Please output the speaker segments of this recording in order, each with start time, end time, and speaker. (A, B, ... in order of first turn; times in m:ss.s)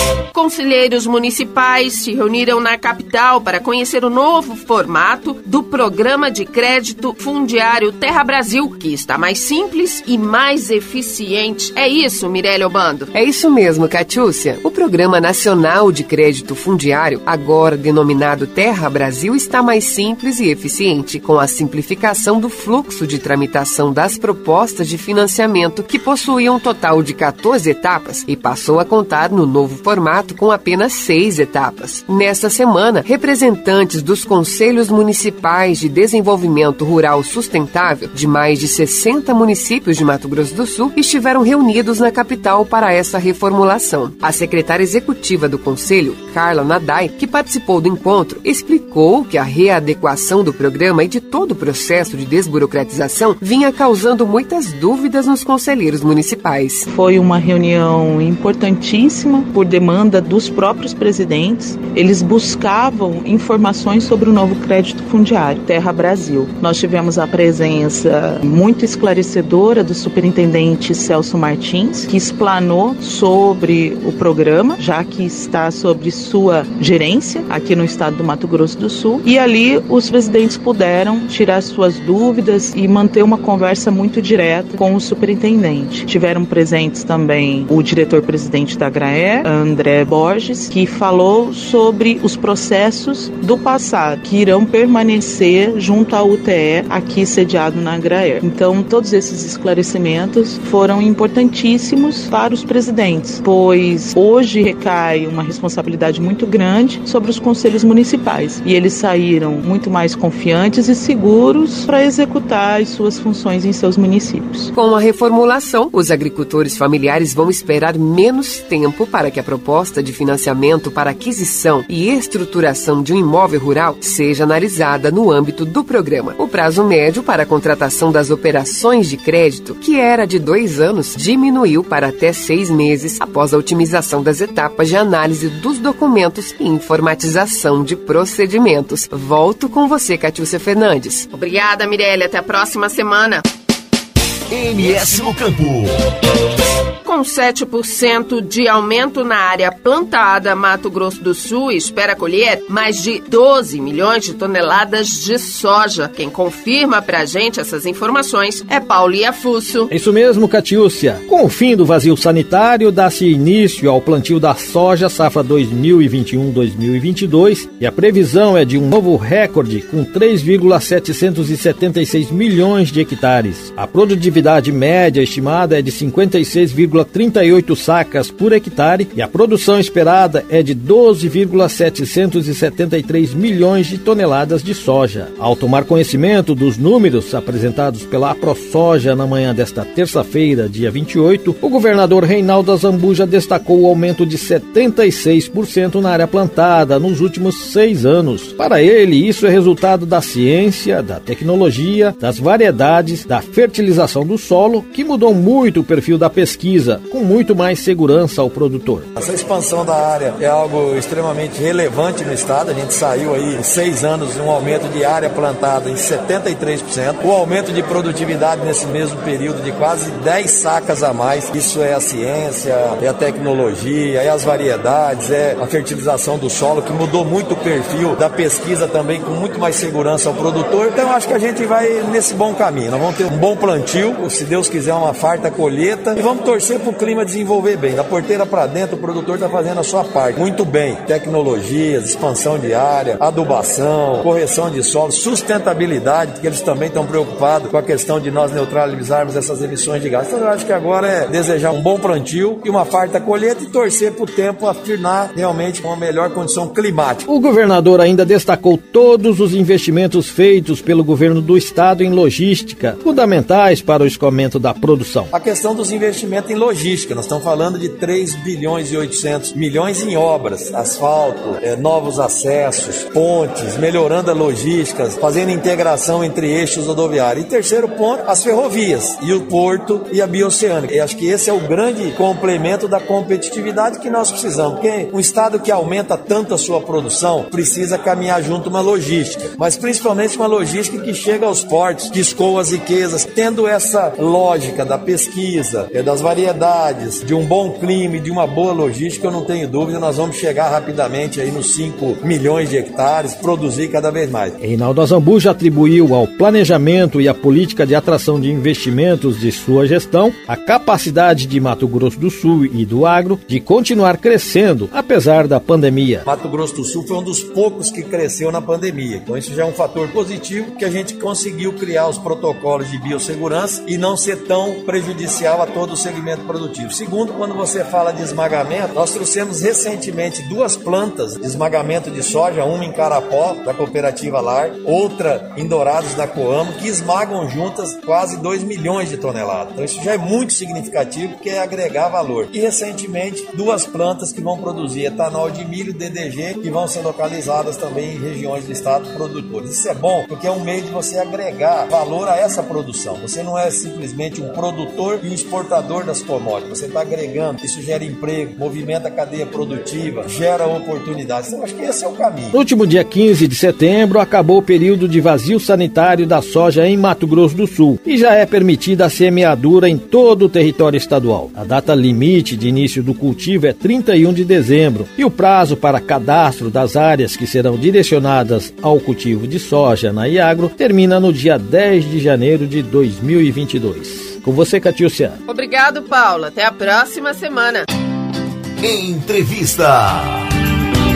0:00.3-0:13.1 A
0:13.1-0:56.9 B
0:56.9-1:54.7 C
1:54.7-2:21.3 B
2:21.3-2:23.4 A
2:24.5-2:25.9 D
2:27.0-2:39.9 A
2:39.9-3:29.1 E
3:29.2-4:17.3 F
4:17.3-4:25.3 E
4:25.3-5:04.6 F
5:04.6-5:16.2 E
5:16.2-6:02.6 F
6:02.5-6:25.4 E
6:25.5-6:27.9 A
6:28.8-6:30.5 D